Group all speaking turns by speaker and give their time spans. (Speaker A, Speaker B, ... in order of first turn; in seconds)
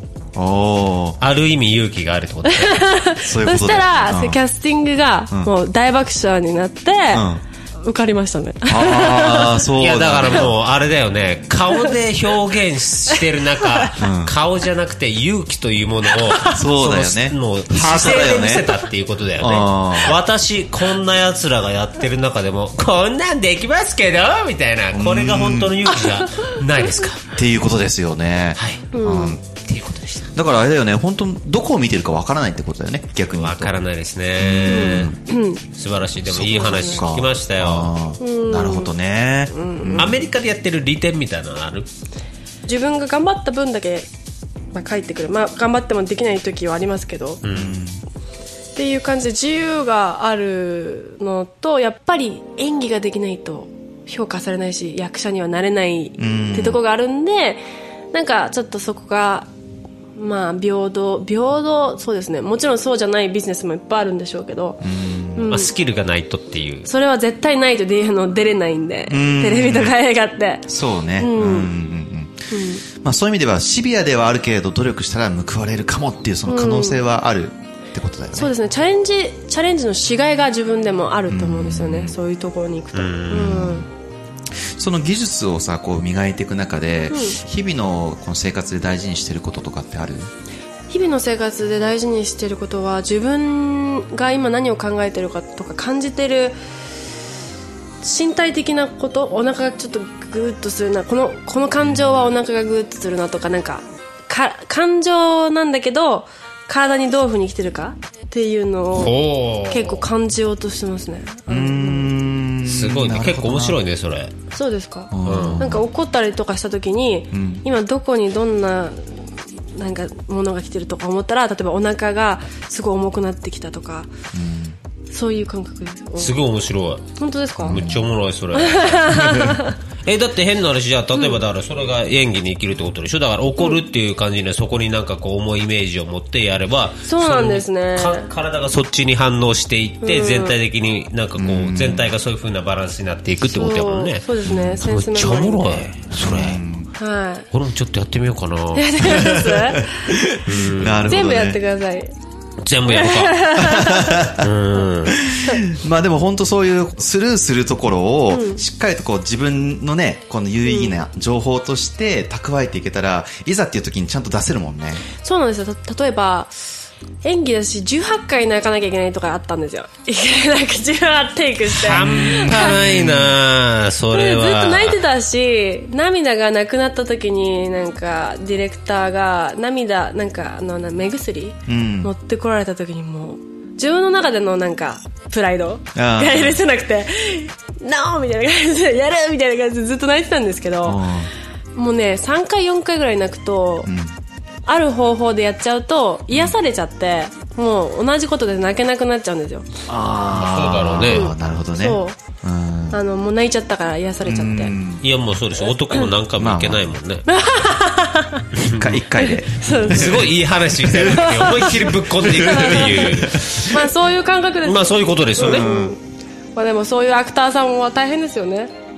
Speaker A: 0.3-1.2, 3.2-4.4, 7.1-7.4, 8.7-10.5, 14.0-14.3, 16.5-18.7, 19.4-20.2, 24.9-25.9, 27.3-29.4, 30.3-33.7, 34.4-35.2, 36.2-40.2, 47.5-48.0, 56.2-56.8, 64.8-65.5, 69.1-70.0, 70.7-78.5, 81.3-82.2, 83.3-83.9, 84.5-90.3, 101.9-102.2, 111.5-113.8, 115.1-115.8, 117.3-117.6, 124.3-124.8, 127.6-128.1, 141.4-142.1, 144.5-144.8, 146.2-146.9, 149.0-151.6, 153.5-154.5, 155.1-165.0, 171.9-173.4, 181.7-182.1, 185.9-186.6, 190.8-191.3, 193.8-194.1, 199.9-203.0, 204.2-205.0, 206.4-207.0, 208.7-213.7, 215.4-215.9
Speaker B: 1.2-2.8, 9.8-27.3, 28.6-28.9, 29.5-30.3, 33.4-35.1, 35.7-37.9, 39.9-41.9, 47.4-47.7, 65.5-66.9, 82.9-83.5, 108.9-110.0, 112.6-114.3, 115.2-115.7, 126.2-127.0, 127.6-146.6, 147.5-149.2, 150.4-151.1, 152.6-153.5, 154.4-155.2, 171.8-175.0, 200.3-201.3, 205.0-207.2, 208.5-209.0, 209.9-213.7, 214.6-215.7
Speaker C: 2.5-7.3, 7.8-9.7, 13.6-13.9, 18.1-18.5, 28.9-29.4, 34.7-35.6, 36.5-37.0, 38.2-38.9, 39.5-40.1, 42.6-44.1, 44.7-47.4, 48.8-59.5, 60.1-64.8, 65.3-65.7, 66.8-71.7, 72.5-72.8, 76.5-77.0, 78.3-83.9, 87.1-87.4, 90.9-96.5, 98.0-109.1, 109.7-112.2, 114.5-124.1, 125.1-126.4, 127.2-127.9, 128.5-129.8, 131.1-131.4, 137.0-138.3, 140.0-140.6, 143.4-145.9, 147.0-147.4, 148.7-150.1, 151.1-152.1, 152.9-154.3, 158.3-158.6, 160.7-161.0, 165.2-166.6, 167.2-172.8, 174.1-191.1, 191.7-193.9, 194.7-199.7, 201.1-202.2, 202.9-204.7, 207.3-208.5, 209.2-210.3, 211.1-214.8, 215.3-216.0, 216.6-218.7